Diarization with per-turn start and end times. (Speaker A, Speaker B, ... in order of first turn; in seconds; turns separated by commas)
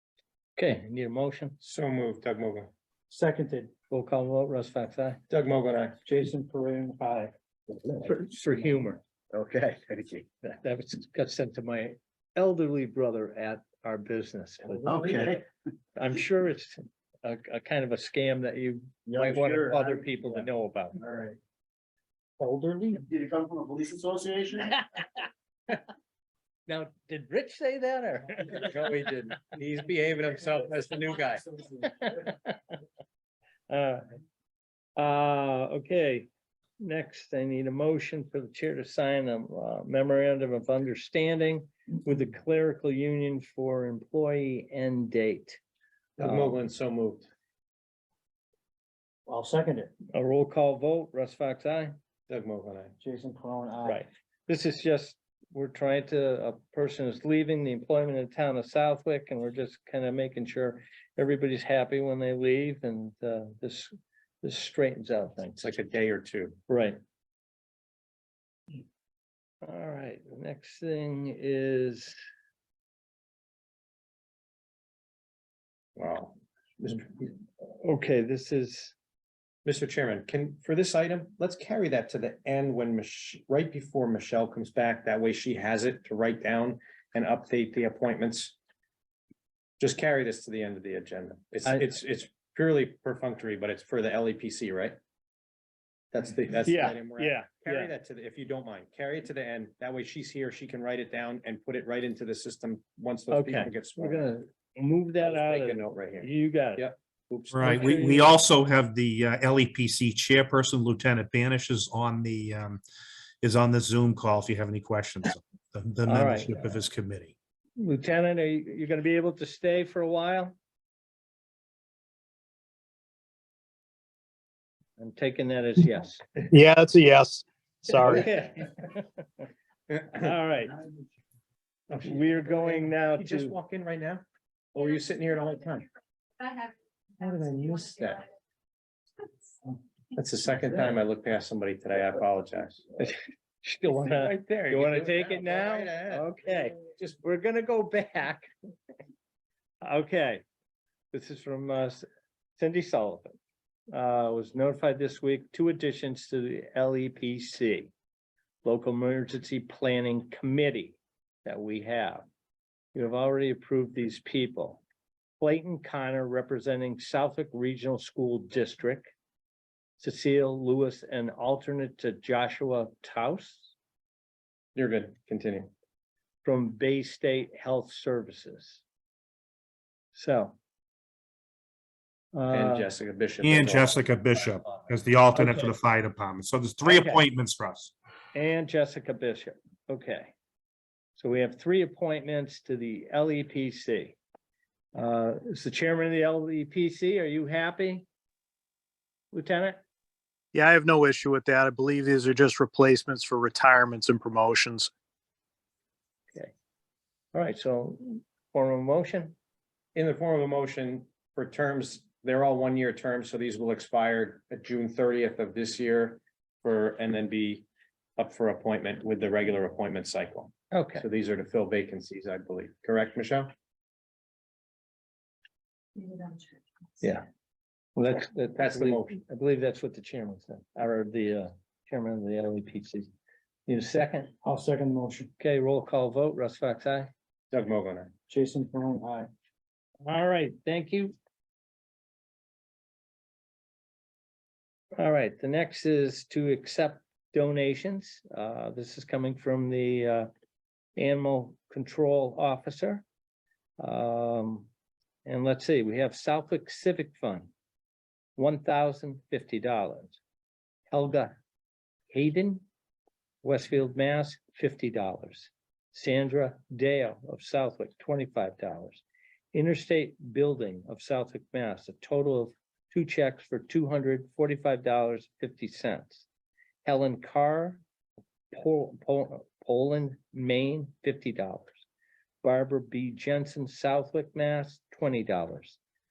Speaker A: 0.6-1.6, Speaker B: 1.6-2.7, Speaker C: 3.1-3.7, Speaker A: 3.9-5.2, Speaker B: 5.3-6.0, Speaker C: 6.1-7.3, Speaker A: 8.0-9.0, Speaker D: 9.3-10.2, Speaker A: 10.4-15.3, Speaker D: 14.8-15.4, Speaker A: 15.9-21.0, Speaker D: 19.1-20.0, Speaker C: 22.4-23.0, Speaker D: 23.0-24.7, Speaker A: 26.7-28.7, Speaker B: 28.6-31.5, Speaker A: 31.8-32.5, Speaker A: 33.7-34.0, Speaker A: 35.0-36.3, Speaker A: 36.8-45.6, Speaker B: 46.2-47.3, Speaker A: 46.2-46.5, Speaker C: 49.3-49.9, Speaker A: 50.1-52.0, Speaker B: 52.3-53.0, Speaker C: 53.0-54.0, Speaker A: 53.8-65.7, Speaker B: 65.6-66.6, Speaker A: 66.7-67.0, Speaker A: 69.6-72.2, Speaker B: 76.0-77.1, Speaker A: 77.6-78.9, Speaker B: 79.7-88.5, Speaker B: 89.8-95.0, Speaker B: 96.1-104.3, Speaker A: 96.6-97.9, Speaker A: 103.3-106.9, Speaker B: 105.2-108.3, Speaker E: 107.5-112.8, Speaker A: 107.7-108.2, Speaker E: 113.4-117.3, Speaker A: 116.0-116.6, Speaker A: 117.8-120.5, Speaker A: 125.0-126.2, Speaker F: 126.5-128.2, Speaker A: 127.9-129.2, Speaker A: 130.1-130.8, Speaker B: 131.9-135.9, Speaker A: 132.0-133.5, Speaker B: 137.2-138.3, Speaker B: 140.1-142.8, Speaker A: 143.0-148.5, Speaker B: 143.9-146.3, Speaker A: 149.8-150.4, Speaker A: 151.1-152.1, Speaker A: 152.6-153.4, Speaker A: 153.9-157.9, Speaker A: 158.6-162.2, Speaker A: 162.9-164.8, Speaker A: 165.4-169.1, Speaker A: 170.0-173.7, Speaker B: 174.8-175.7, Speaker A: 176.4-178.8, Speaker A: 180.1-180.6, Speaker A: 182.3-182.9, Speaker B: 182.5-184.0, Speaker E: 183.4-187.9, Speaker A: 185.3-185.8, Speaker A: 186.8-187.3, Speaker A: 188.3-190.3, Speaker A: 191.2-194.2, Speaker A: 194.9-198.0, Speaker A: 199.3-199.8, Speaker F: 200.5-204.9, Speaker A: 207.3-209.3, Speaker B: 209.9-217.7, Speaker B: 218.2-223.5, Speaker A: 220.7-221.1, Speaker A: 228.0-233.1, Speaker B: 228.6-229.1, Speaker A: 233.7-234.3, Speaker C: 234.4-235.3, Speaker A: 235.4-237.1, Speaker B: 237.5-238.1, Speaker C: 238.3-239.3, Speaker A: 240.0-241.2, Speaker A: 245.0-250.3, Speaker A: 251.0-253.0, Speaker A: 253.8-254.7, Speaker A: 255.2-257.5, Speaker A: 258.4-260.2, Speaker A: 260.9-261.3, Speaker A: 262.1-262.6, Speaker A: 263.4-276.2, Speaker A: 276.9-277.8, Speaker A: 278.5-281.8, Speaker A: 282.4-285.8